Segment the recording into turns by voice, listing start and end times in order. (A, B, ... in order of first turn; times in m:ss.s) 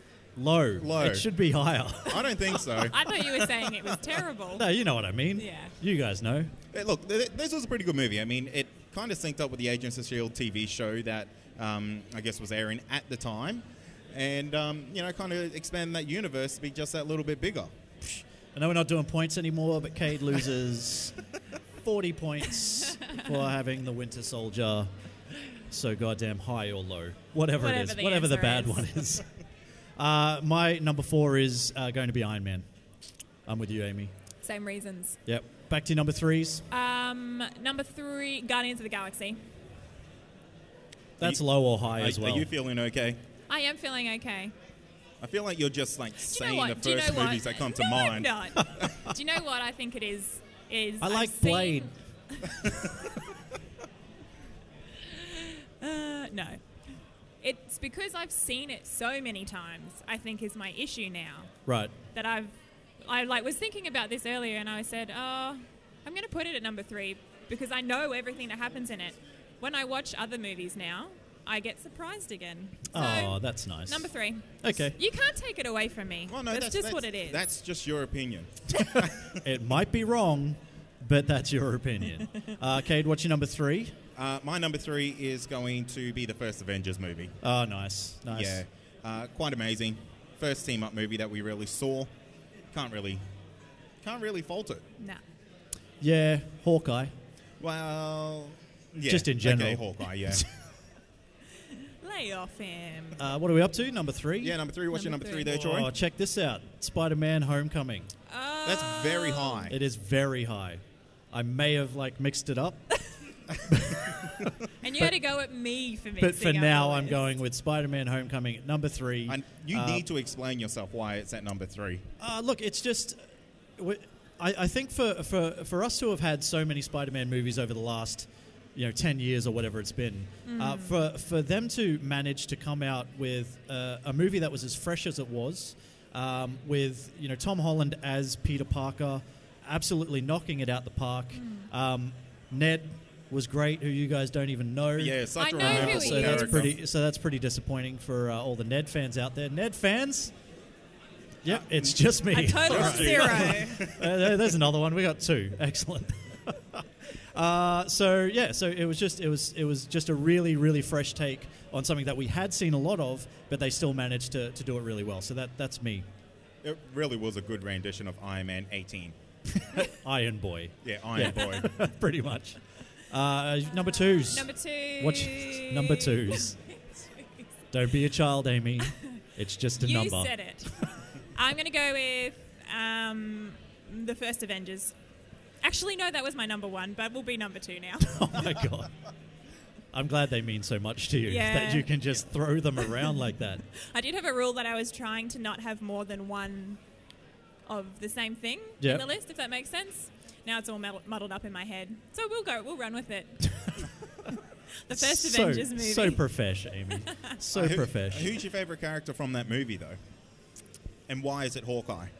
0:00.4-0:02.2 A
0:00.8-0:01.3 B
0:02.0-0:03.9 B
0:02.6-0:04.7 C
0:04.6-0:06.5 A
0:05.4-0:05.7 C
0:06.7-0:17.7 B
0:18.0-0:21.2 A
0:21.8-0:24.9 A
0:25.7-0:29.3 A
0:27.6-0:28.9 C
0:30.0-0:32.7 A
0:33.4-0:34.1 A
0:34.4-0:35.2 C
0:35.2-0:36.6 A
0:36.7-0:39.4 C
0:41.2-0:42.5 A
0:41.2-0:43.2 B
0:43.5-0:44.5 C
0:45.2-0:48.9 B
0:46.2-0:52.8 C
0:51.0-0:51.9 A
0:55.0-1:01.6 C
1:01.6-1:01.9 A
1:02.1-1:17.4 C
1:12.9-1:14.1 A
1:14.6-1:15.0 A
1:16.3-1:19.4 B
1:19.4-1:24.0 A
1:24.2-1:27.4 B
1:27.4-1:28.6 A
1:28.3-1:32.1 B
1:32.7-1:33.2 B
1:34.0-1:34.8 B
1:36.0-1:37.1 A
1:37.6-1:40.4 B
1:39.0-1:40.4 A
1:42.0-1:43.2 C
1:43.2-1:44.6 A
1:44.4-1:45.9 B
1:44.9-1:45.5 C
1:45.4-1:48.1 A
1:48.3-1:49.7 C
1:48.6-1:49.8 B
1:49.7-1:52.8 A
1:53.7-1:55.1 A
1:54.8-1:57.3 C
1:56.2-2:00.0 A
1:59.3-2:02.1 B
2:02.2-2:30.3 A
2:10.4-2:10.9 C
2:21.3-2:21.7 C
2:25.0-2:26.8 B
2:25.4-2:26.7 C
2:31.4-2:46.0 A
2:31.5-2:31.9 B
2:32.3-2:33.8 C
2:32.6-2:34.4 B
2:46.6-2:49.2 B
2:49.6-2:56.6 A
2:50.8-2:51.7 B
2:53.8-2:57.5 C
2:57.7-3:00.9 A
2:58.9-2:59.2 C
2:59.8-3:04.9 C
3:05.6-3:08.3 C
3:08.0-3:08.9 A
3:09.9-3:13.6 A
3:11.2-3:12.2 C
3:13.7-3:16.8 C
3:17.7-3:23.9 C
3:18.8-3:19.0 A
3:24.9-3:26.2 C
3:24.9-3:28.4 A
3:27.0-3:27.3 C
3:27.5-3:30.0 B
3:31.1-3:32.1 B